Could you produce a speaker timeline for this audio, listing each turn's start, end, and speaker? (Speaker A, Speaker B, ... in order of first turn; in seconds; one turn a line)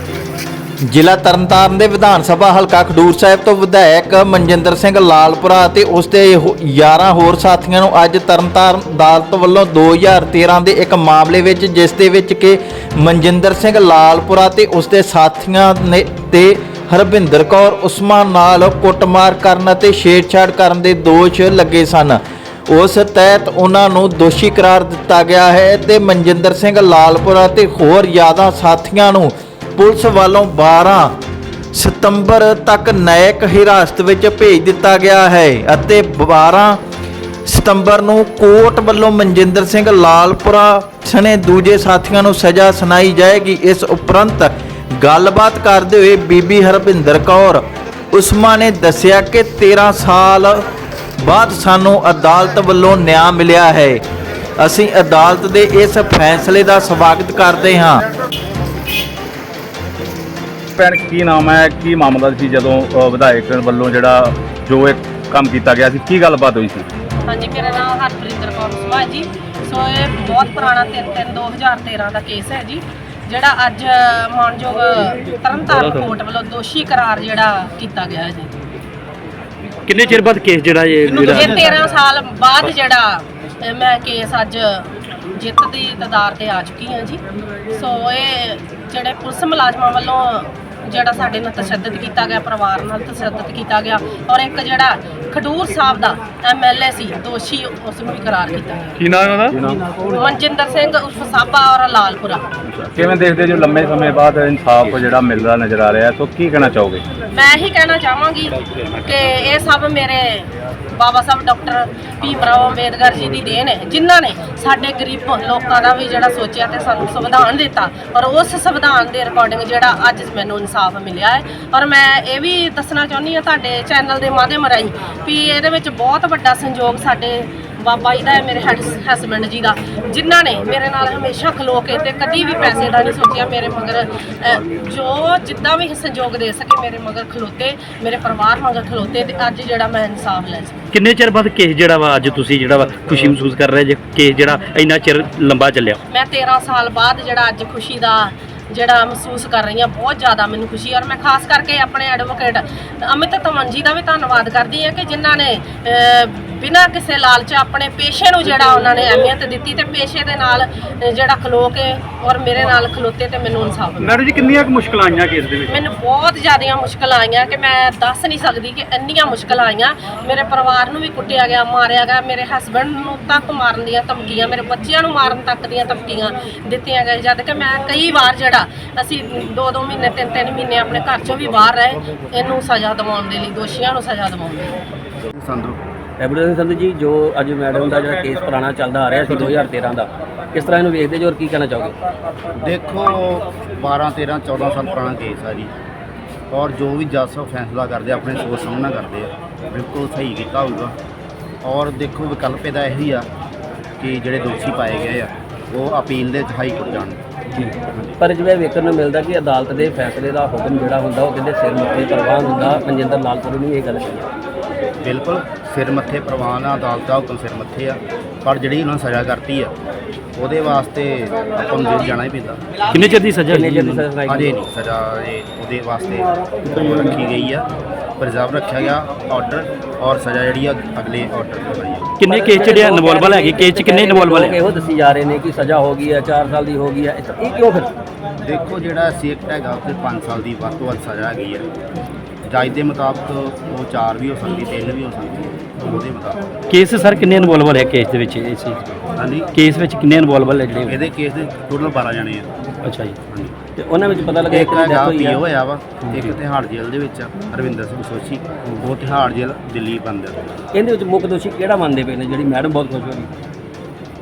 Speaker A: 0.9-31.1
Speaker A: 31.7-36.8
Speaker A: 37.5-50.6
Speaker A: 51.2-54.0
Speaker A: 54.6-58.0
Speaker B: 60.8-66.9
Speaker C: 67.3-78.5
Speaker D: 79.9-81.6
Speaker E: 81.3-81.7
Speaker C: 81.3-99.0
Speaker D: 99.0-99.6
Speaker B: 99.5-99.8
Speaker C: 100.0-102.5
Speaker B: 103.0-107.0
Speaker C: 107.3-140.8
Speaker D: 140.9-146.0
Speaker C: 146.1-164.2
Speaker D: 164.0-165.8
Speaker C: 165.7-184.8
Speaker E: 185.3-185.8
Speaker F: 186.2-192.0
Speaker E: 192.6-195.7
Speaker E: 196.5-200.9
Speaker E: 201.6-203.3
Speaker E: 204.0-207.2
Speaker F: 207.5-214.3
Speaker E: 207.8-208.2
Speaker E: 215.0-219.7
Speaker E: 220.3-222.8
Speaker D: 222.9-224.1
Speaker F: 223.5-224.5
Speaker E: 224.2-227.7
Speaker E: 228.2-232.1
Speaker D: 232.2-234.6
Speaker F: 232.2-237.9
Speaker E: 238.4-241.7
Speaker E: 242.4-246.4
Speaker D: 246.7-248.8
Speaker E: 249.1-249.5
Speaker D: 249.5-250.8
Speaker F: 250.7-250.9
Speaker E: 250.9-252.5
Speaker D: 252.8-253.2
Speaker E: 253.3-253.5
Speaker F: 253.8-255.4
Speaker E: 254.5-260.6
Speaker F: 256.0-256.3
Speaker F: 260.7-263.3